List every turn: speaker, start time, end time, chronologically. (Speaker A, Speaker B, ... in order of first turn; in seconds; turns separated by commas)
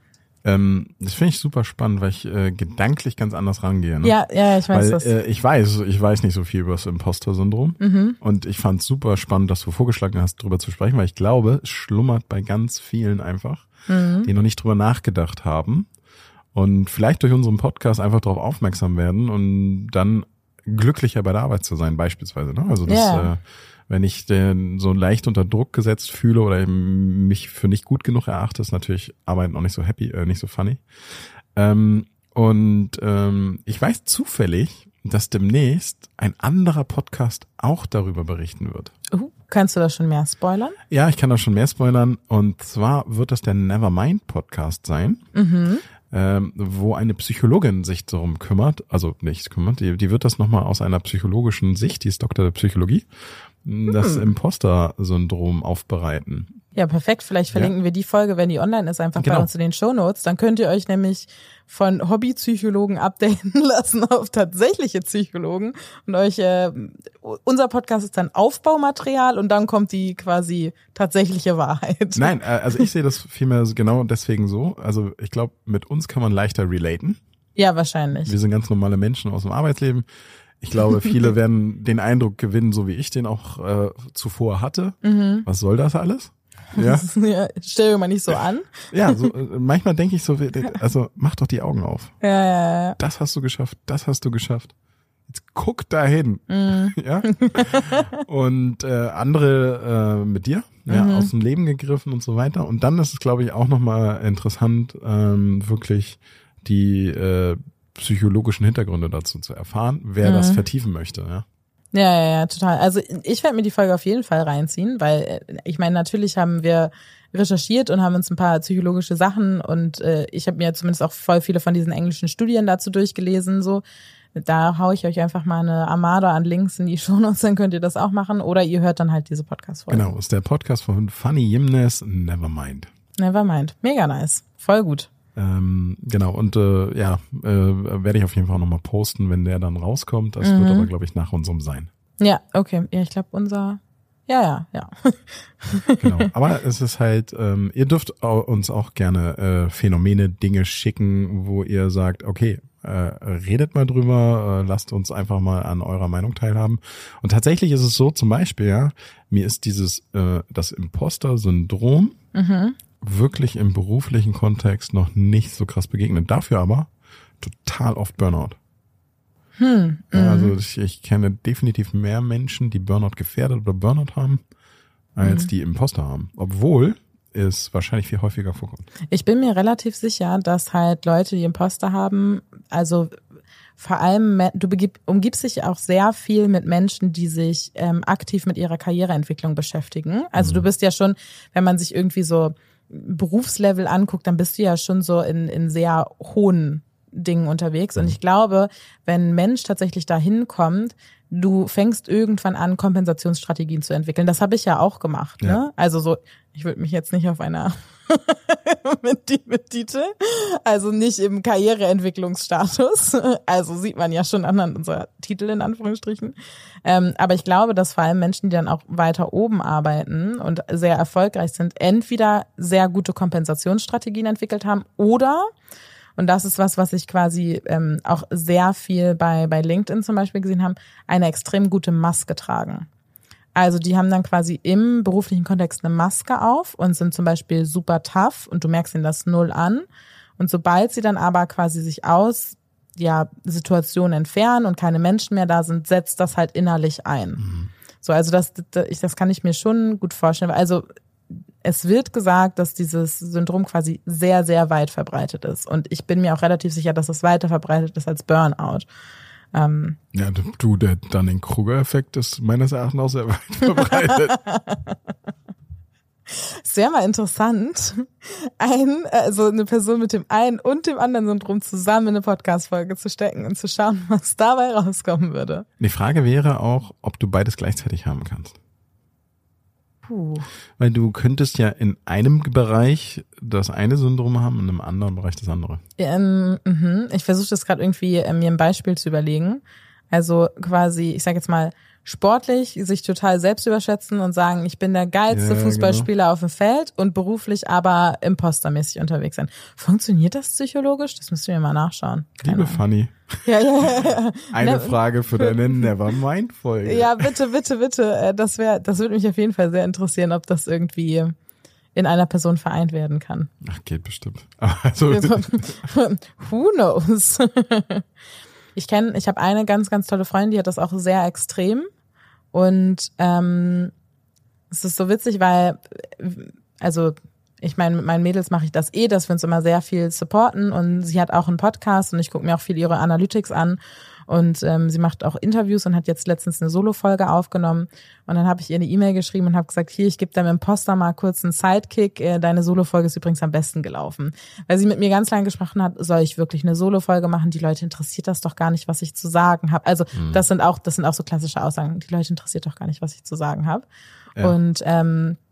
Speaker A: 0.4-4.2, Speaker B: 4.0-5.1, Speaker A: 4.7-13.7, Speaker B: 7.8-8.2, Speaker B: 13.9-14.3, Speaker A: 14.2-15.9, Speaker A: 16.5-38.9, Speaker B: 22.9-23.3, Speaker B: 39.1-40.8, Speaker A: 40.9-45.2, Speaker B: 45.3-45.8, Speaker A: 46.1-53.1, Speaker A: 53.6-56.5, Speaker B: 53.9-54.3, Speaker B: 56.7-72.9, Speaker A: 59.2-59.5, Speaker A: 72.1-77.2, Speaker B: 77.5-78.3, Speaker A: 78.2-80.0, Speaker A: 80.6-87.1, Speaker B: 85.0-85.5, Speaker B: 86.7-89.3, Speaker A: 88.9-92.1, Speaker B: 92.2-93.0, Speaker A: 93.0-94.7, Speaker A: 95.3-111.4, Speaker B: 96.5-98.2, Speaker B: 100.9-101.3, Speaker B: 110.2-110.6, Speaker B: 111.9-123.8, Speaker B: 124.3-130.1, Speaker A: 129.9-132.9, Speaker B: 133.2-135.1, Speaker A: 135.3-141.9, Speaker B: 140.4-140.9, Speaker B: 142.2-146.3, Speaker A: 146.0-162.2, Speaker B: 162.3-162.8, Speaker A: 163.0-166.9, Speaker A: 167.4-168.6, Speaker B: 169.6-170.5, Speaker A: 170.1-174.4, Speaker A: 175.1-178.9, Speaker B: 175.2-175.5, Speaker B: 179.1-183.2, Speaker B: 183.8-225.5, Speaker A: 190.4-190.7, Speaker B: 226.2-232.9, Speaker B: 233.5-239.8, Speaker B: 240.4-247.4, Speaker A: 247.4-247.7, Speaker B: 248.0-250.8, Speaker B: 251.6-258.9, Speaker B: 259.5-260.0, Speaker A: 260.1-264.4, Speaker B: 263.8-265.0, Speaker B: 266.3-275.6, Speaker A: 275.8-278.6, Speaker B: 280.1-280.5, Speaker A: 280.8-285.8, Speaker B: 286.0-302.8, Speaker A: 295.3-296.1, Speaker A: 302.4-307.3, Speaker B: 303.4-305.9, Speaker B: 306.8-311.3, Speaker B: 311.9-313.5, Speaker A: 313.6-315.8, Speaker B: 315.1-318.0, Speaker B: 318.8-321.9, Speaker B: 322.5-323.9, Speaker B: 324.7-353.9, Speaker A: 350.1-350.4, Speaker B: 354.4-355.4